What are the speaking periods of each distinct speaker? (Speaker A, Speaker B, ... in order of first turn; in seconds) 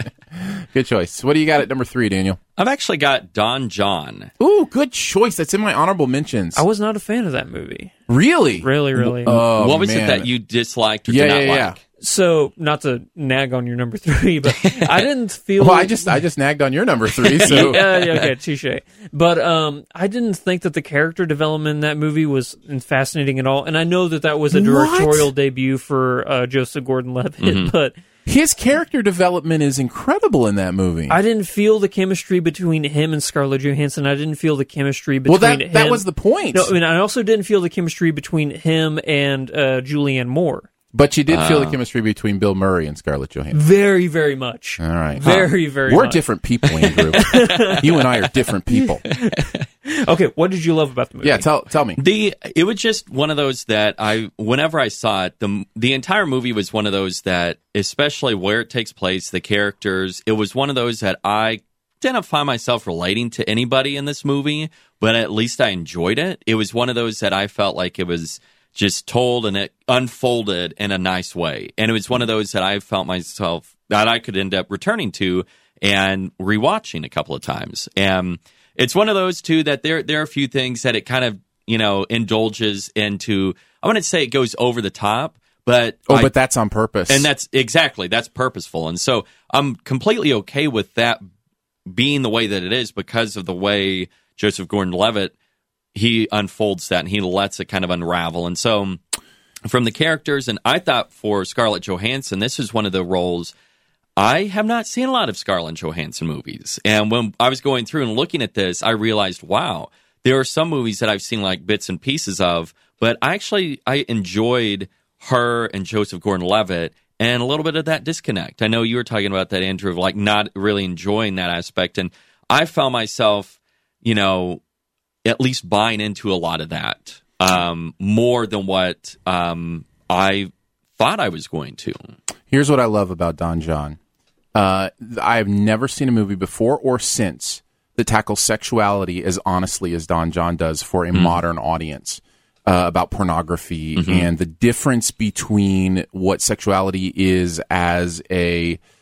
Speaker A: 0.4-2.4, 4.4-6.6, 8.1-10.3, 11.1-11.8, 15.6-17.8, 24.5-25.3, 28.2-31.2, 35.3-36.7, 40.9-43.6, 44.8-49.0, 51.2-52.0, 86.1-87.3, 132.5-134.0, 134.5-148.8
Speaker B: 2.6-4.3, 9.6-11.8, 14.6-15.0, 17.4-18.3, 27.4-27.7, 41.3-41.8, 49.1-49.5, 52.0-86.3, 87.1-91.2, 91.9-95.3, 95.9-99.0, 99.6-103.5, 104.2-124.6, 125.2-132.0, 143.9-144.3
Speaker C: 6.5-7.9, 8.6-9.4, 12.0-16.1, 17.4-27.9, 31.1-40.7, 43.5-46.2, 46.9-47.9, 48.8-51.5